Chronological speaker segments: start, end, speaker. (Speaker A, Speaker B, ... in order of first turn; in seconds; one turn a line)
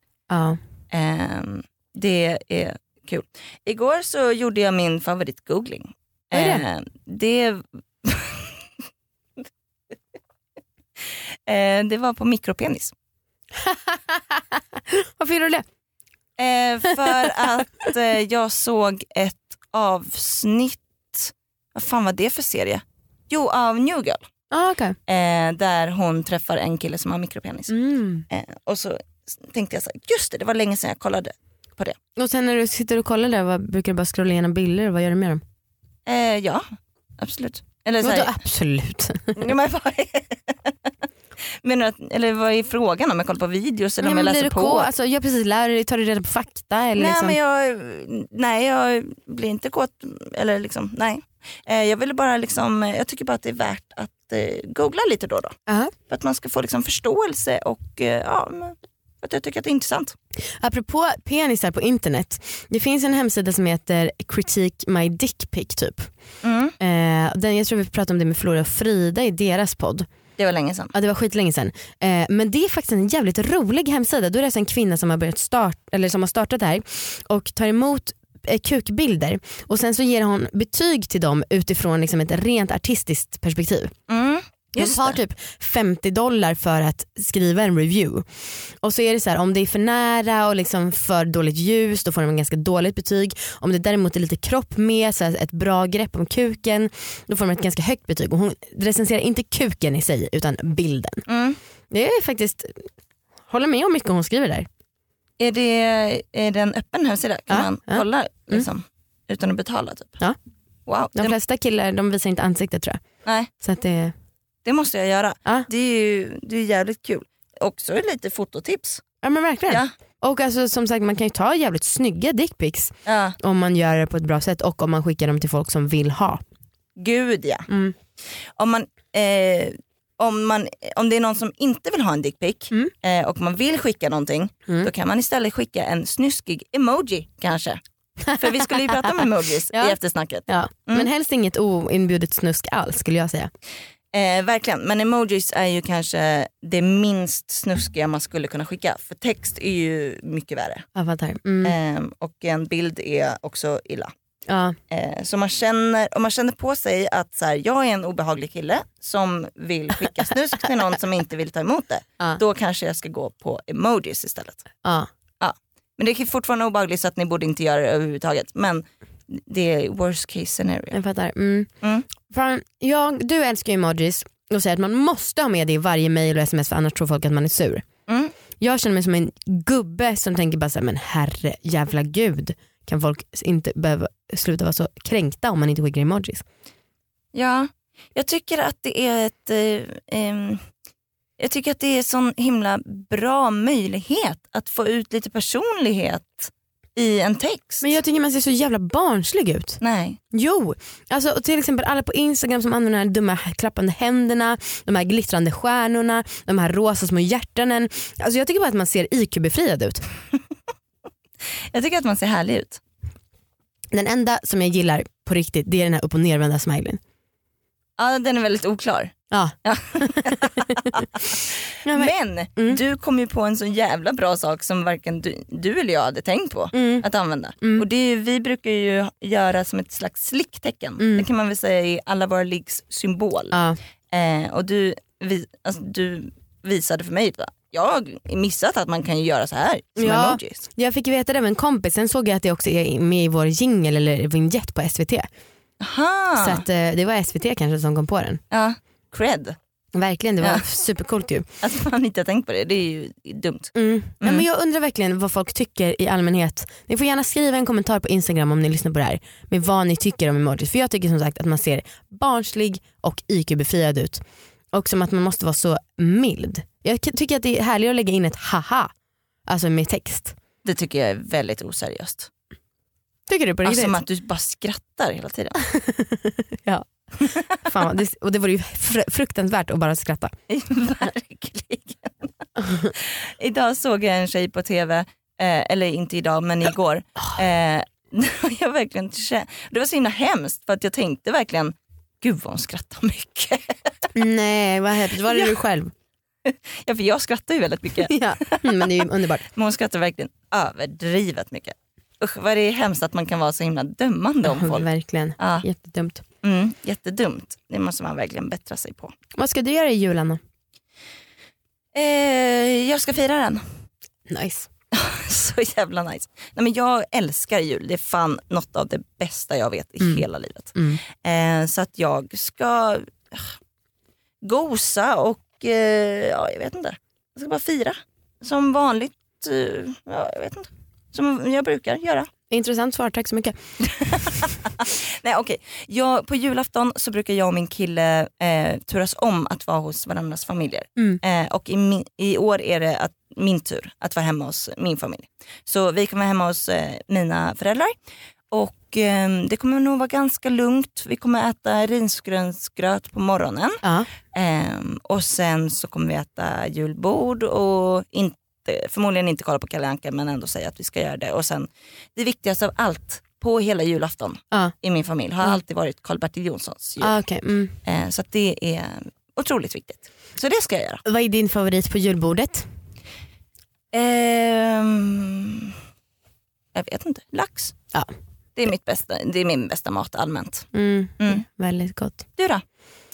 Speaker A: 0.3-0.6
Speaker B: 0.9-8.6
Speaker A: 6.3-6.6
Speaker B: 11.5-12.9
Speaker A: 13.6-15.7
Speaker B: 16.4-24.2
Speaker A: 24.5-25.0
Speaker B: 25.1-27.8
Speaker A: 27.7-28.3
Speaker B: 28.3-32.0
Speaker A: 32.2-35.4
Speaker B: 36.1-36.6
Speaker B: 37.2-38.4
Speaker A: 38.0-39.4
Speaker B: 39.3-40.9
Speaker B: 41.6-44.9
Speaker A: 44.0-47.4
Speaker B: 47.0-55.5
Speaker B: 56.1-60.2
Speaker A: 60.6-66.1
Speaker B: 66.4-66.8
Speaker A: 66.8-70.1
Speaker B: 70.4-70.9
Speaker A: 70.9-83.9
Speaker B: 84.1-85.2
Speaker A: 84.8-88.3
Speaker A: 88.8-101.2
Speaker B: 101.3-101.6
Speaker A: 101.9-102.9
Speaker A: 103.5-104.7
Speaker B: 105.4-110.2
Speaker A: 107.5-108.7
Speaker B: 110.9-111.3
Speaker A: 111.2-113.0
Speaker B: 113.2-113.5
Speaker A: 113.6-114.1
Speaker B: 114.7-119.0
Speaker A: 119.2-126.4
Speaker B: 123.1-123.4
Speaker B: 127.0-127.7
Speaker A: 127.7-128.0
Speaker B: 128.6-137.8
Speaker B: 138.3-141.1
Speaker A: 138.9-139.2
Speaker A: 140.5-143.5
Speaker B: 144.1-150.9
Speaker A: 151.0-151.8
Speaker B: 151.6-154.1
Speaker A: 154.5-154.8
Speaker B: 154.9-164.6
Speaker B: 165.4-171.0
Speaker A: 170.9-171.7
Speaker B: 171.8-172.1
Speaker A: 172.2-177.8
Speaker B: 178.1-178.3
Speaker A: 178.6-186.4
Speaker B: 187.3-190.7
Speaker B: 191.4-197.9
Speaker A: 197.8-199.8
Speaker B: 199.8-200.2
Speaker A: 200.3-210.1
Speaker B: 211.7-212.8
Speaker A: 213.9-217.0
Speaker B: 218.0-219.1
Speaker A: 219.3-220.8
Speaker B: 219.6-233.6
Speaker A: 221.8-222.8
Speaker A: 226.7-227.1
Speaker A: 227.6-227.9
Speaker A: 231.0-231.3
Speaker A: 233.5-233.8
Speaker B: 234.1-240.7
Speaker A: 240.0-245.3
Speaker B: 245.8-246.6
Speaker A: 246.3-248.4
Speaker B: 248.5-249.6
Speaker A: 249.9-251.4
Speaker B: 251.6-254.4
Speaker A: 253.8-268.9
Speaker A: 269.5-270.4
Speaker B: 270.6-272.3
Speaker A: 273.3-274.0
Speaker B: 273.6-275.6
Speaker A: 275.7-276.9
Speaker A: 277.6-280.3
Speaker B: 280.5-282.3
Speaker A: 282.6-282.9
Speaker B: 282.9-293.8
Speaker A: 294.1-295.9
Speaker B: 295.2-295.6
Speaker B: 296.5-298.9
Speaker A: 298.1-299.4
Speaker B: 299.5-304.9
Speaker A: 304.4-306.2
Speaker B: 305.4-305.6
Speaker B: 306.4-309.1
Speaker A: 309.4-310.4
Speaker B: 311.9-313.6
Speaker A: 314.3-314.7
Speaker B: 314.9-323.6
Speaker A: 320.0-321.0
Speaker B: 324.4-332.3
Speaker A: 332.5-333.6
Speaker B: 333.8-347.9
Speaker B: 348.5-367.2
Speaker A: 353.8-354.1
Speaker A: 367.0-367.8
Speaker B: 367.8-371.0
Speaker A: 371.1-372.7
Speaker B: 373.9-375.8
Speaker B: 376.8-377.8
Speaker B: 378.6-380.7
Speaker A: 380.7-382.3
Speaker B: 382.4-382.6